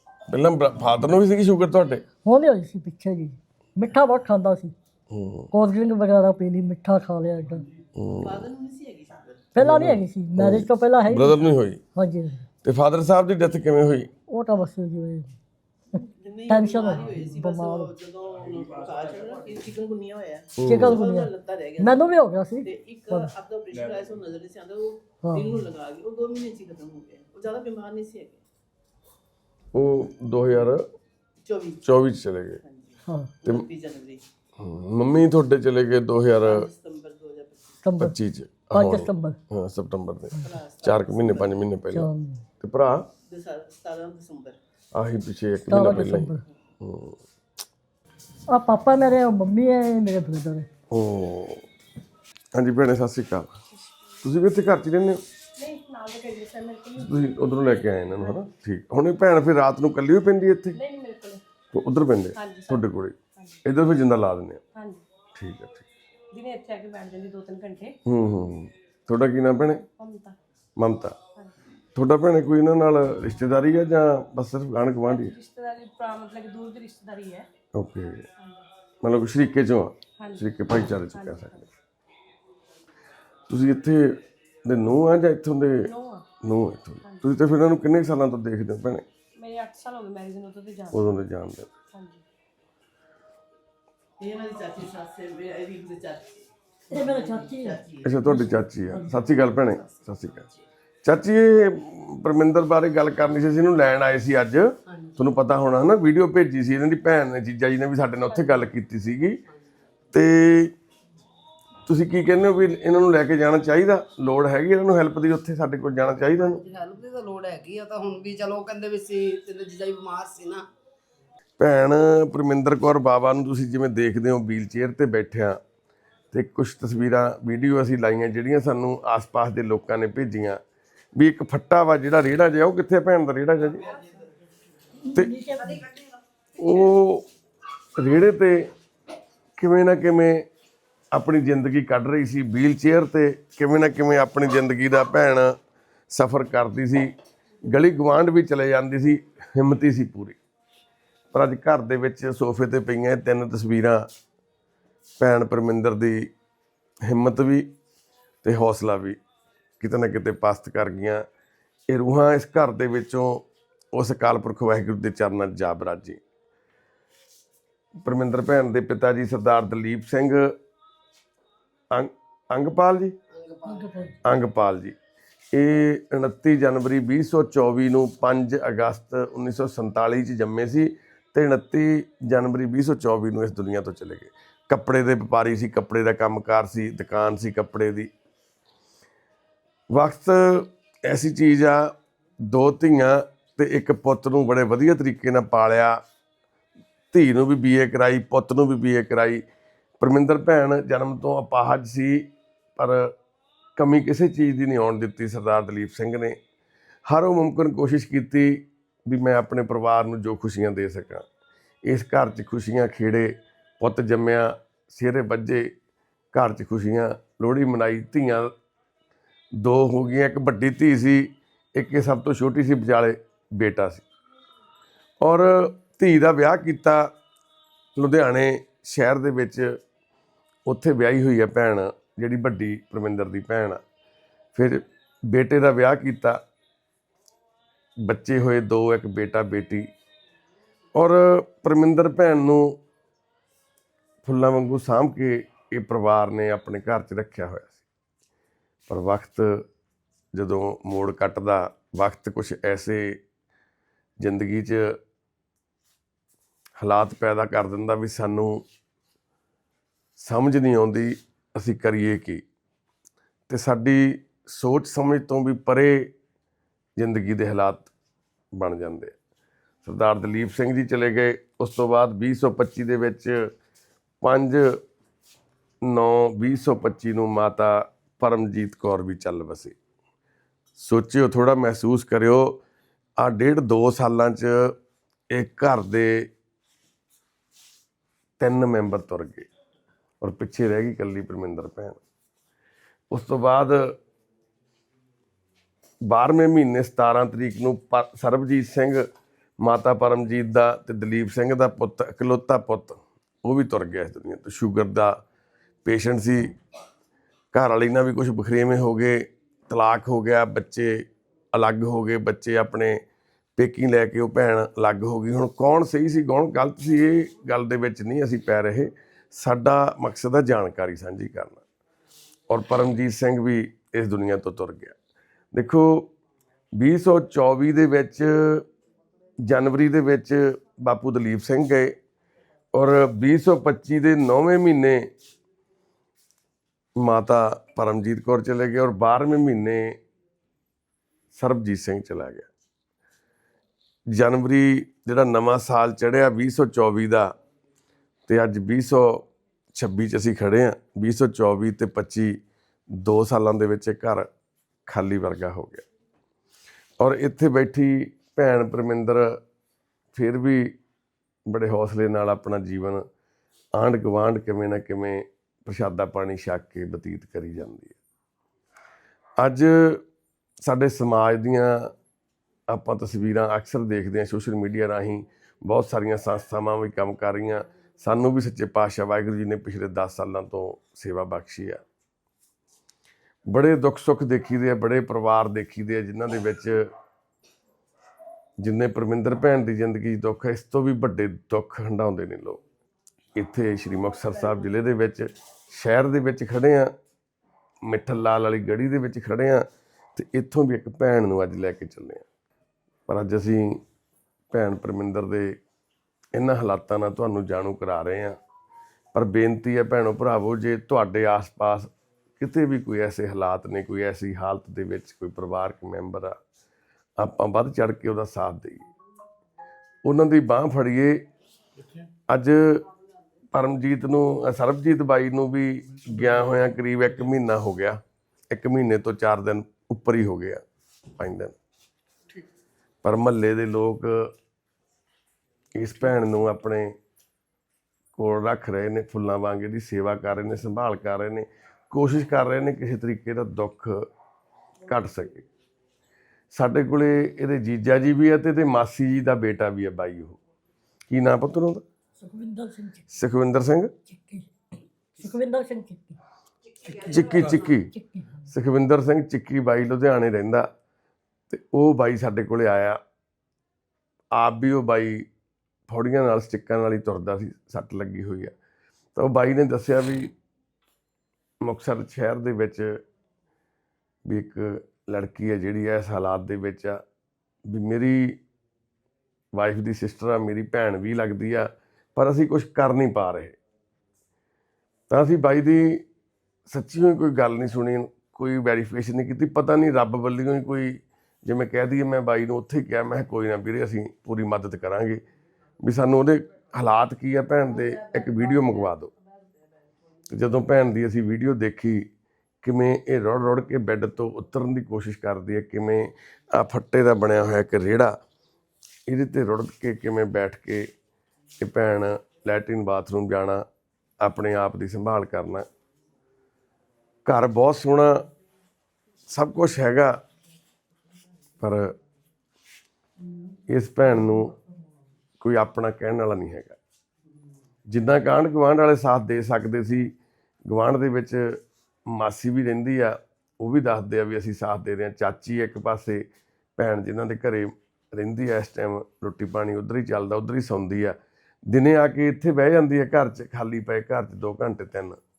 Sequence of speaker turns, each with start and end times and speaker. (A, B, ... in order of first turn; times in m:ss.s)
0:00.3-0:02.0 A
0:02.2-0:04.7 B
0:05.1-0:05.5 A
0:05.5-0:07.6 B
0:08.0-0:08.5 A
0:08.2-0:09.5 C
0:09.5-0:11.4 B
0:09.6-0:11.8 A
0:12.0-0:12.4 B
0:12.6-0:14.1 A
0:14.3-0:15.4 B
0:15.9-0:22.0 C
0:16.5-0:17.9 B
0:20.6-0:21.0 A
0:20.6-0:23.3 B
0:22.6-0:28.4 C
0:25.2-0:25.6 B
0:29.7-0:30.8 A
0:31.4-0:31.8 C
0:31.8-0:32.6 A
0:32.6-0:34.2 C
0:33.0-0:33.3 B
0:34.6-0:36.7 A
0:36.4-0:37.8 C
0:37.8-0:38.2 B
0:38.0-0:42.1 A
0:38.7-0:39.4 B
0:40.4-0:41.6 C
0:41.9-0:42.4 B
0:42.6-0:43.1 A
0:43.3-0:44.6 C
0:44.9-0:47.2 A
0:45.7-0:46.4 B
0:48.5-0:50.7 B
0:50.9-0:51.6 A
0:52.5-0:53.5 A
0:54.2-0:55.2 A
0:55.6-0:58.4 D
0:57.0-1:00.8 A
1:00.7-1:01.4 D
1:01.7-1:04.6 A
1:02.4-1:03.6 D
1:04.8-1:05.0 D
1:05.4-1:05.8 A
1:06.3-1:08.0 D
1:08.0-1:09.8 A
1:09.8-1:10.4 D
1:10.8-1:11.1 A
1:12.0-1:15.3 A
1:15.1-1:17.5 D
1:17.8-1:18.2 A
1:19.0-1:21.6 A
1:20.2-1:20.5 D
1:21.1-1:21.6 D
1:23.5-1:25.9 A
1:25.8-1:26.2 D
1:26.4-1:29.0 A
1:29.4-1:31.1 D
1:30.9-1:31.7 A
1:31.9-1:32.2 D
1:34.2-1:40.6 C
1:36.9-1:39.1 B
1:38.0-1:40.4 A
1:41.0-1:49.4 A
1:50.1-1:50.7 A
1:51.9-1:56.6 A
1:56.5-2:00.6 E
2:01.6-2:05.6 A
2:06.3-2:10.6 A
2:11.2-2:13.9 A
2:15.0-2:15.9 B
2:16.6-2:17.2 A
2:18.0-2:18.7 A
2:19.6-2:20.5 A
2:21.1-2:25.5 A
2:26.1-2:27.1 A
2:27.7-2:30.4 A
2:31.3-2:34.0 A
2:35.2-2:36.3 A
2:37.0-2:37.7 A
2:38.4-2:39.2 A
2:39.8-2:41.2 A
2:41.9-2:46.2 A
2:48.0-2:50.5 A
2:51.9-2:53.1 A
2:53.3-2:53.9 E
2:53.6-2:54.2 B
2:54.2-2:55.0 A
2:55.5-3:08.1 A
3:09.9-3:11.9 A
3:12.5-3:16.0 A
3:17.1-3:19.4 A
3:20.0-3:23.1 A
3:23.8-3:26.4 A
3:27.1-3:31.2 A
3:31.8-3:35.7 A
3:36.3-3:38.5 A
3:39.6-3:44.0 A
3:45.2-3:47.1 A
3:48.0-3:49.8 A
3:50.6-3:53.8 A
3:54.5-3:56.4 A
3:58.0-3:59.9 A
4:01.0-4:02.8 A
4:04.2-4:07.8 A
4:08.9-4:09.6 A
4:10.3-4:13.2 A
4:14.2-4:15.0 A
4:16.8-4:18.6 A
4:20.2-4:22.4 A
4:23.5-4:26.1 A
4:27.0-4:27.9 A
4:28.5-4:29.1 A
4:29.8-4:33.5 A
4:34.2-4:34.8 A
4:35.8-4:39.8 A
4:40.8-4:42.6 A
4:43.2-4:44.7 A
4:45.3-4:46.3 A
4:48.4-4:49.5 A
4:50.2-4:52.0 A
4:53.1-4:54.0 A
4:56.0-4:59.0 A
4:59.6-5:05.2 A
5:05.8-5:06.5 A
5:07.5-5:13.0 A
5:13.6-5:21.6 A
5:22.5-5:25.0 A
5:25.5-5:26.1 A
5:26.8-5:28.6 A
5:29.4-5:32.0 A
5:32.7-5:35.0 A
5:37.0-5:40.0 A
5:41.3-5:42.5 A
5:44.1-5:47.3 A
5:48.3-5:52.4 A
5:53.0-5:54.3 A
5:54.9-5:55.8 A
5:57.0-5:59.4 A
6:00.1-6:00.7 A
6:01.5-6:03.0 A
6:03.8-6:08.0 A
6:09.4-6:10.0 A
6:10.6-6:11.9 A
6:12.7-6:21.8 A
6:23.5-6:26.9 A
6:28.6-6:32.6 A
6:33.4-6:36.9 A
6:37.9-6:39.6 A
6:40.2-6:42.2 A
6:43.1-6:43.8 A
6:44.5-6:45.6 A
6:46.3-6:48.4 A
6:49.1-6:51.9 A
6:52.4-6:56.4 A
6:57.2-6:58.8 A
7:00.0-7:01.2 A
7:02.3-7:02.8 A
7:03.5-7:10.6 A
7:11.2-7:11.5 A
7:13.0-7:14.3 A
7:15.8-7:17.0 A
7:18.2-7:24.1 A
7:24.8-7:25.5 A
7:26.5-7:30.4 A
7:31.1-7:31.8 A
7:32.2-7:33.1 B
7:33.1-7:33.9 A
7:34.1-7:34.5 B
7:35.2-7:36.2 B
7:36.8-7:37.9 A
7:37.9-7:38.4 B
7:38.5-7:40.7 A
7:41.5-7:43.0 A
7:44.3-7:45.2 A
7:45.9-7:48.5 A
7:49.2-7:50.3 A
7:51.6-7:53.0 A
7:54.3-7:57.0 A
7:57.7-7:58.4 A
7:59.5-8:03.6 A
8:05.1-8:06.0 A
8:06.7-8:15.2 A
8:15.8-8:19.1 A
8:20.3-8:22.0 A
8:22.6-8:28.2 A
8:29.1-8:30.9 A
8:31.6-8:33.6 A
8:34.2-8:35.7 A
8:37.2-8:38.2 A
8:39.3-8:40.2 A
8:41.6-8:41.9 A
8:43.7-8:44.5 A
8:45.4-8:46.8 A
8:47.9-8:50.1 A
8:50.7-8:56.2 A
8:56.8-9:01.2 A
9:01.7-9:05.2 A